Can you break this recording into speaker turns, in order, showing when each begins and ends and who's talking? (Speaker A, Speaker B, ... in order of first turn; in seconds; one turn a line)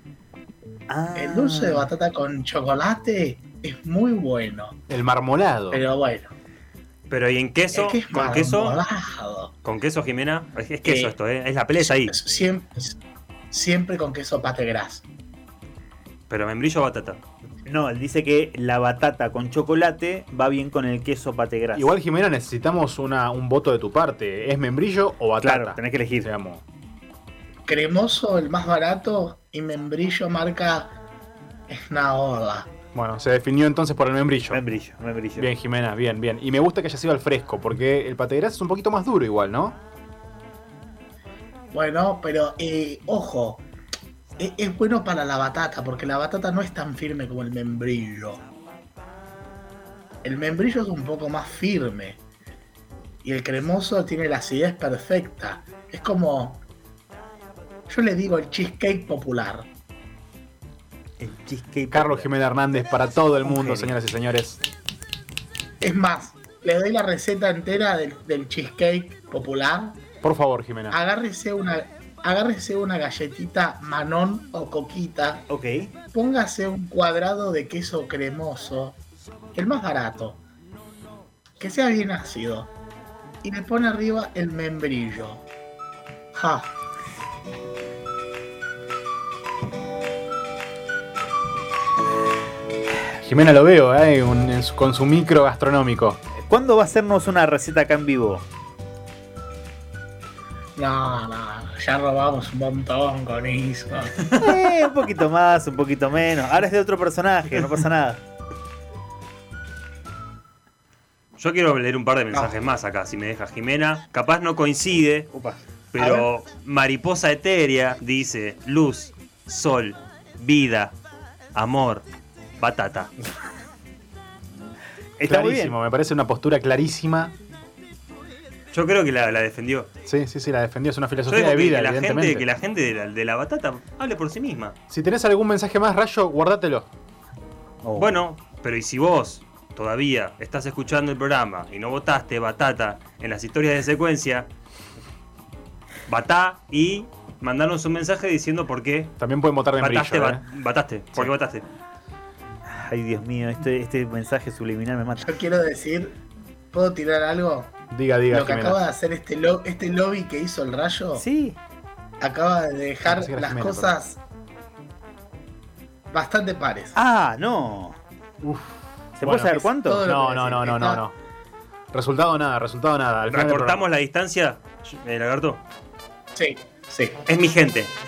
Speaker A: 0.9-1.9
Speaker B: 1.1-4.8
Speaker C: 4.9-5.8
Speaker B: 5.7-6.3
Speaker D: 7.1-8.8
Speaker B: 7.7-9.6
Speaker D: 9.6-12.2
Speaker B: 10.8-11.1
Speaker B: 11.8-13.0
Speaker B: 13.5-15.0
Speaker D: 16.3-17.2
Speaker A: 17.7-21.9
Speaker C: 21.7-26.6
Speaker A: 25.4-26.3
Speaker B: 27.7-31.0
Speaker B: 31.7-32.7
Speaker C: 32.9-34.6
Speaker A: 34.5-35.5
Speaker C: 35.4-39.8
Speaker B: 41.7-43.6
Speaker B: 44.4-48.4
Speaker B: 50.2-52.2
Speaker B: 53.2-56.6
Speaker B: 57.9-59.7
Speaker A: 61.2-62.3
Speaker C: 61.9-64.6
Speaker A: 63.4-64.0
Speaker B: 65.8-70.0
Speaker C: 70.2-71.0
Speaker B: 70.9-75.5
Speaker A: 75.5-75.9
Speaker B: 76.1-79.0
Speaker B: 79.5-80.4
Speaker B: 81.6-82.7
Speaker B: 83.4-85.5
Speaker B: 86.3-86.7
Speaker C: 93.2-96.2
Speaker A: 96.5-98.5
Speaker B: 100.8-104.3
Speaker D: 104.2-104.5
Speaker A: 104.3-108.2
Speaker D: 111.4-115.3
Speaker B: 112.3-112.6
Speaker A: 115.3-115.6
Speaker D: 115.9-121.0
Speaker B: 116.0-116.3
Speaker D: 121.5-122.0
Speaker D: 122.6-123.1
Speaker A: 125.2-125.8
Speaker C: 125.3-127.3
Speaker D: 128.7-129.9
Speaker C: 130.1-132.5
Speaker D: 131.3-134.8
Speaker C: 134.9-136.9
Speaker A: 137.8-138.2
Speaker D: 138.0-144.5
Speaker D: 146.1-149.1
Speaker C: 149.2-150.4
Speaker D: 149.8-151.7
Speaker A: 152.7-155.3
Speaker B: 155.2-156.2
Speaker B: 156.7-157.8
Speaker C: 157.9-158.8
Speaker B: 158.3-161.2
Speaker A: 161.2-161.6
Speaker B: 162.2-164.2
Speaker C: 163.1-164.0
Speaker B: 166.1-167.0
Speaker A: 166.9-168.0
Speaker C: 168.4-171.2
Speaker A: 169.2-170.0
Speaker B: 169.8-171.0
Speaker C: 171.9-173.9
Speaker D: 173.3-175.6
Speaker B: 176.3-177.2
Speaker D: 177.3-177.9